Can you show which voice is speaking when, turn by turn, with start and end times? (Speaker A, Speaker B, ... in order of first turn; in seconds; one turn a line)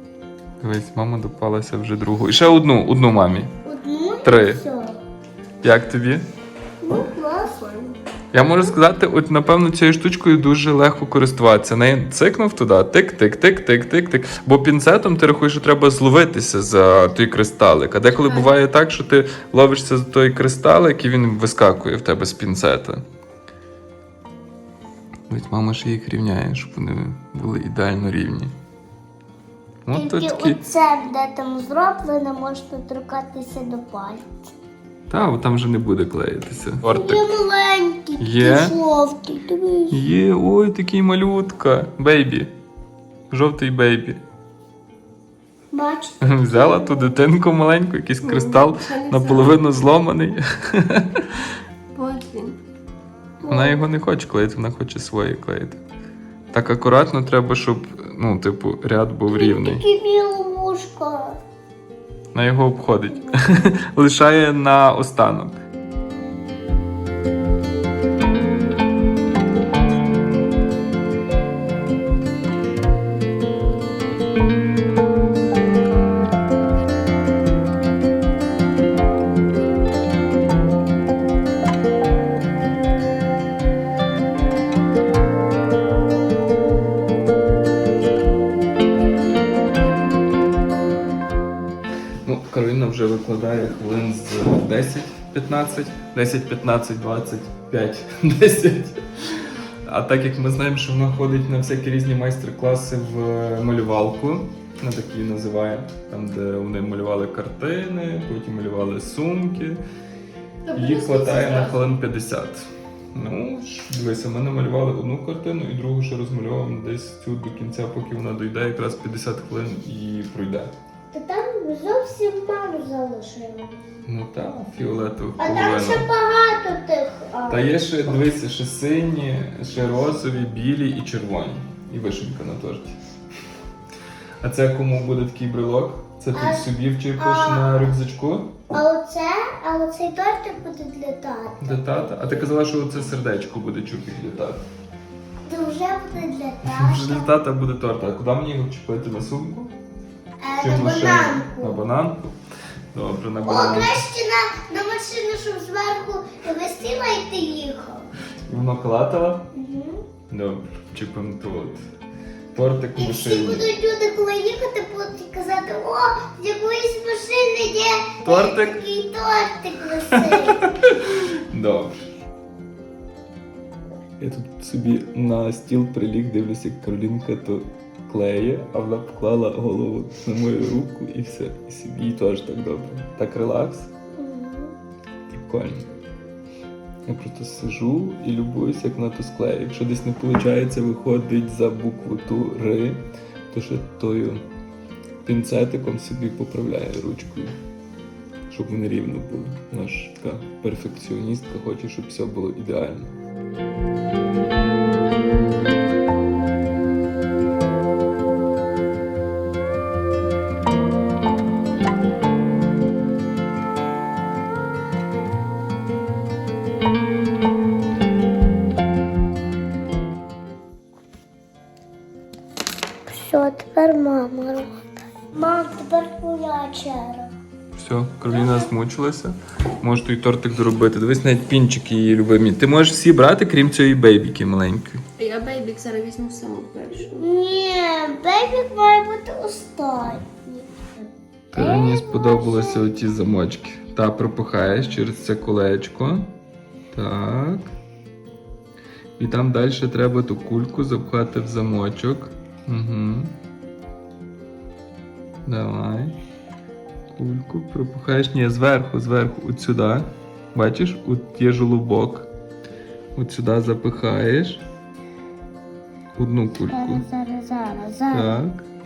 Speaker A: 0.6-3.5
Speaker B: 3.6-5.0
Speaker A: 4.2-4.6
Speaker A: 5.6-6.2
Speaker C: 6.8-8.0
Speaker B: 6.9-7.5
Speaker A: 8.3-23.0
Speaker C: 18.2-18.5
Speaker A: 25.3-28.5
Speaker A: 29.9-30.6
Speaker B: 29.9-34.5
Speaker A: 35.1-37.3
Speaker B: 36.8-40.0
Speaker A: 38.2-38.8
Speaker A: 39.9-42.5
Speaker A: 43.3-44.2
Speaker B: 45.7-47.1
Speaker A: 46.2-51.5
Speaker C: 48.2-49.6
Speaker C: 51.9-52.6
Speaker B: 53.4-53.8
Speaker A: 53.5-55.8
Speaker A: 56.5-59.8
Speaker B: 59.3-61.4
Speaker A: 62.3-65.6
Speaker A: 92.2-109.8
Speaker C: 110.6-111.8
Speaker A: 110.7-120.7
Speaker B: 121.1-123.8
Speaker A: 124.0-126.1
Speaker B: 125.4-127.7
Speaker A: 127.5-133.0
Speaker A: 134.4-138.6
Speaker B: 136.3-137.8
Speaker B: 138.7-142.2
Speaker A: 141.6-144.6
Speaker B: 145.4-147.3
Speaker A: 146.6-149.7
Speaker B: 150.4-151.8
Speaker A: 150.6-152.3
Speaker A: 152.9-154.1
Speaker B: 153.4-158.1
Speaker A: 158.5-159.5
Speaker B: 159.5-160.0
Speaker A: 160.3-161.8
Speaker A: 162.5-163.7
Speaker B: 162.9-170.8
Speaker A: 168.2-168.8
Speaker A: 170.1-172.1
Speaker A: 174.2-183.9
Speaker B: 184.1-184.8
Speaker A: 185.3-185.9
Speaker A: 187.1-194.4
Speaker A: 195.2-197.5
Speaker A: 198.5-203.1
Speaker B: 223.1-224.7
Speaker B: 225.3-227.3
Speaker A: 227.7-235.0
Speaker B: 228.3-228.7
Speaker C: 235.2-237.2
Speaker B: 237.1-240.7
Speaker B: 241.5-242.8
Speaker A: 241.5-246.3
Speaker A: 246.9-247.7
Speaker A: 249.2-253.3
Speaker A: 255.4-256.2
Speaker A: 257.1-262.3
Speaker A: 263.1-264.6
Speaker A: 266.2-267.0
Speaker B: 266.7-268.4
Speaker A: 268.1-268.6